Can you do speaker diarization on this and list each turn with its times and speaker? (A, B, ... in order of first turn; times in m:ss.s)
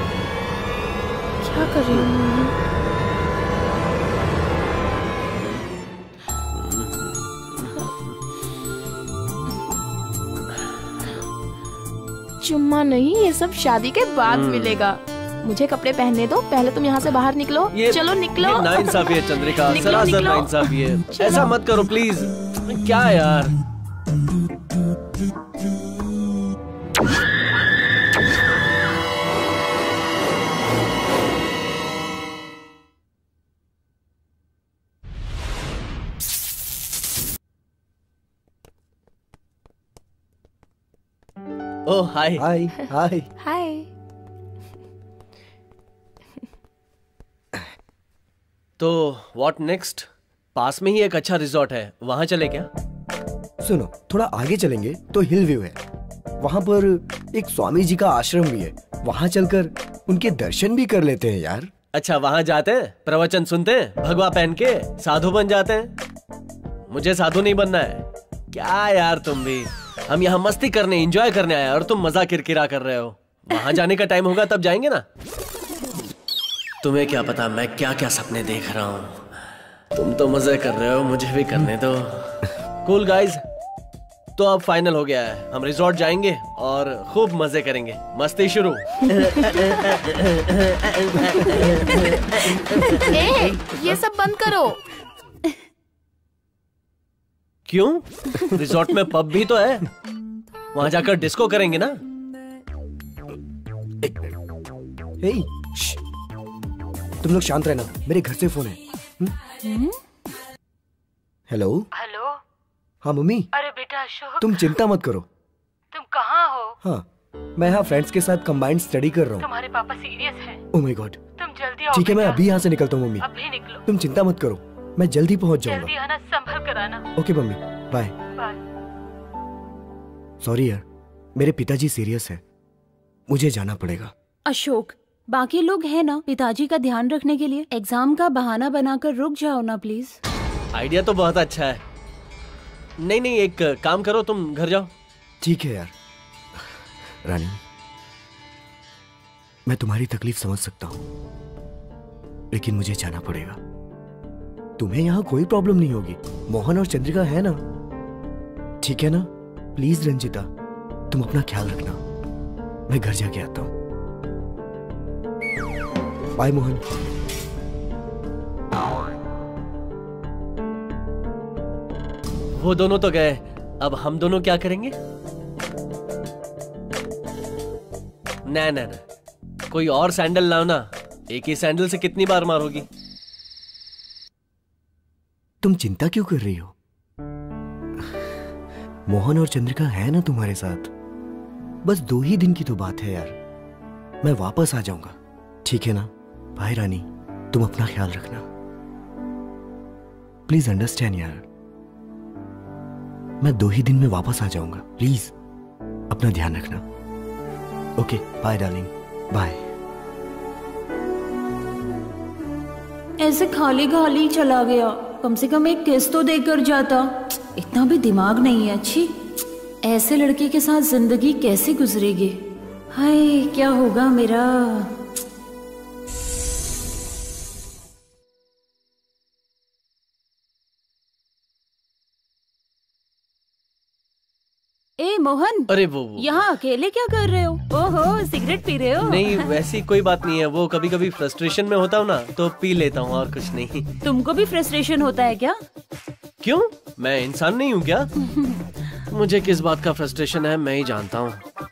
0:01.4-0:02.5 A
0:06.5-0:08.2 B
0:12.4-0:21.5 A
0:14.3-0:14.8 B
0:17.7-0:23.5 B
0:41.8-0:42.4 B
0:42.4-0:43.3 C
0:43.4-0:43.9 A
0:48.8-0:52.7 B
0:53.6-0:55.8 C
0:56.4-1:01.7 C
1:01.9-1:05.9 B
1:06.9-1:15.0 B
1:16.8-1:23.4 B
1:24.4-1:33.1 B
1:33.1-1:34.8 A
1:37.7-1:39.8 B
1:40.7-1:42.0 B
1:44.0-1:44.3 C
1:45.2-1:46.0 C
1:47.2-1:49.4 C
1:49.6-1:50.0 D
1:51.5-1:51.9 C
1:52.0-1:52.3 E
1:53.0-1:53.5 C
1:53.6-1:54.4 E
1:54.4-1:55.3 C
1:55.9-1:56.7 E
1:56.8-1:59.5 C
1:59.4-2:00.6 E
2:00.7-2:01.2 C
2:01.4-2:02.4 E
2:01.9-2:03.3 C
2:03.2-2:03.8 E
2:03.8-2:05.9 C
2:05.7-2:07.0 E
2:07.2-2:08.1 C
2:10.4-2:12.4 C
2:13.3-2:14.1 C
2:14.5-2:20.2 D
2:20.7-2:21.8 B
2:23.0-2:24.9 B
2:25.4-2:25.9 C
2:26.5-2:27.6 C
2:29.6-2:31.0 C
2:32.5-2:33.6 C
2:34.8-2:37.6 C
2:38.8-2:40.5 C
2:41.1-2:42.0 C
2:42.9-2:43.7 C
2:46.4-2:46.8 C
2:52.6-2:54.9 B
2:58.5-2:59.0 B
2:59.7-3:02.9 B
3:05.6-3:06.7 C
3:09.1-3:10.9 C
3:11.8-3:13.4 C
3:14.2-3:18.5 C
3:20.5-3:21.5 C
3:23.4-3:25.3 C
3:26.1-3:26.8 C
3:28.0-3:29.6 C
3:33.2-3:39.1 D
3:39.8-3:42.4 D
3:42.9-3:44.9 D
3:55.0-3:59.5 D
3:55.7-3:56.3 B
3:59.0-4:03.9 B
4:04.0-4:05.6 D
4:06.4-4:08.1 B
4:08.2-4:08.6 D
4:09.1-4:11.4 B